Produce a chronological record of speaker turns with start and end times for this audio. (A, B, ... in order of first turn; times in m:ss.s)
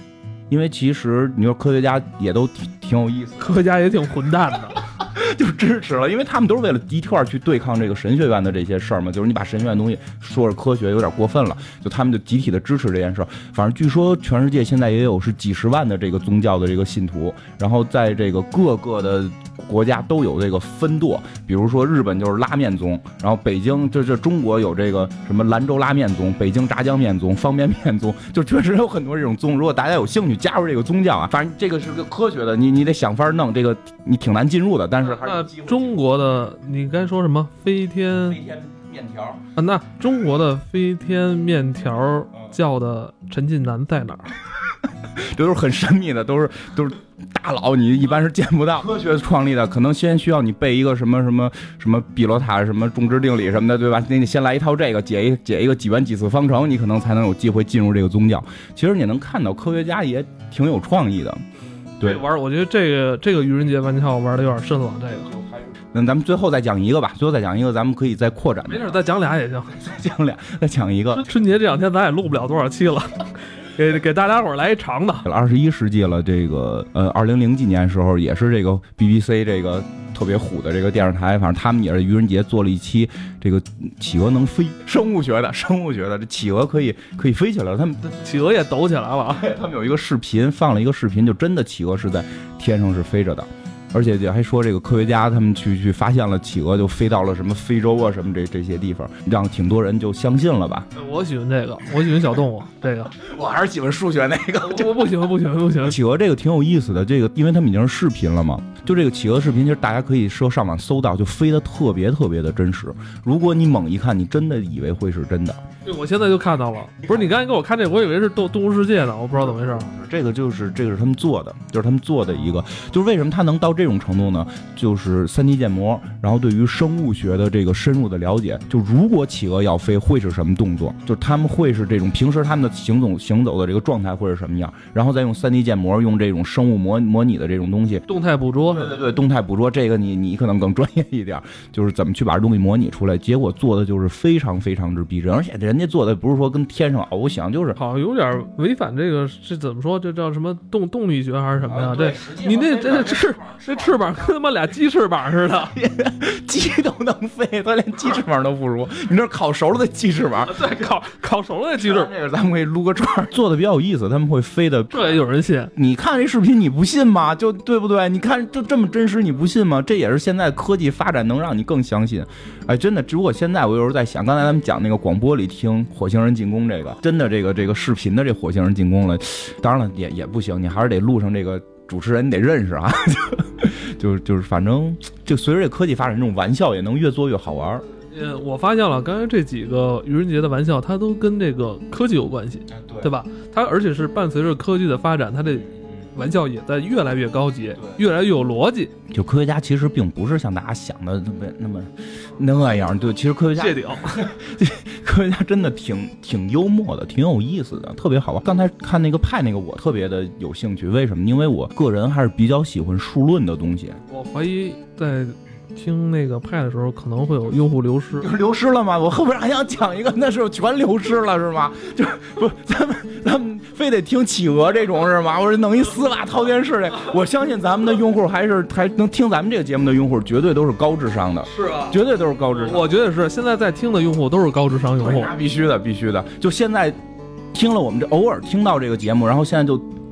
0:00.5-0:03.6 A
0:03.4-0:04.8 B
0:05.0-0:36.0 A
0:35.0-0:38.4 B
0:38.3-0:39.4 A
0:39.6-0:44.3 B
0:45.0-1:01.4 A
1:01.9-1:05.4 B
1:02.0-1:02.2 A
1:05.7-1:09.0 A
1:08.7-1:09.8 B
1:09.7-1:11.3 A
1:11.1-1:15.3 B
1:15.2-1:28.0 A
1:28.0-1:29.5 B
1:29.3-1:40.9 A
1:41.0-1:43.2 B
1:43.2-1:45.1 A
1:44.6-1:46.0 B
1:45.8-1:55.6 A
1:55.8-1:59.9 B
1:59.4-2:18.0 A
2:18.1-2:19.0 B
2:18.7-2:27.8 A
2:27.8-2:35.8 B
2:31.7-2:34.1 A
2:35.7-2:40.7 A
2:40.4-2:42.1 B
2:41.8-2:45.1 A
2:44.9-2:45.7 B
2:45.8-3:07.8 A
3:07.9-3:18.9 B
3:12.7-3:13.1 A
3:19.1-3:34.0 A
3:23.6-3:24.3 B
3:34.1-3:38.3 B
3:38.2-3:52.9 A
3:51.5-3:52.0 B
3:52.5-3:55.3 B
3:55.0-3:57.0 A
3:57.5-3:59.9 A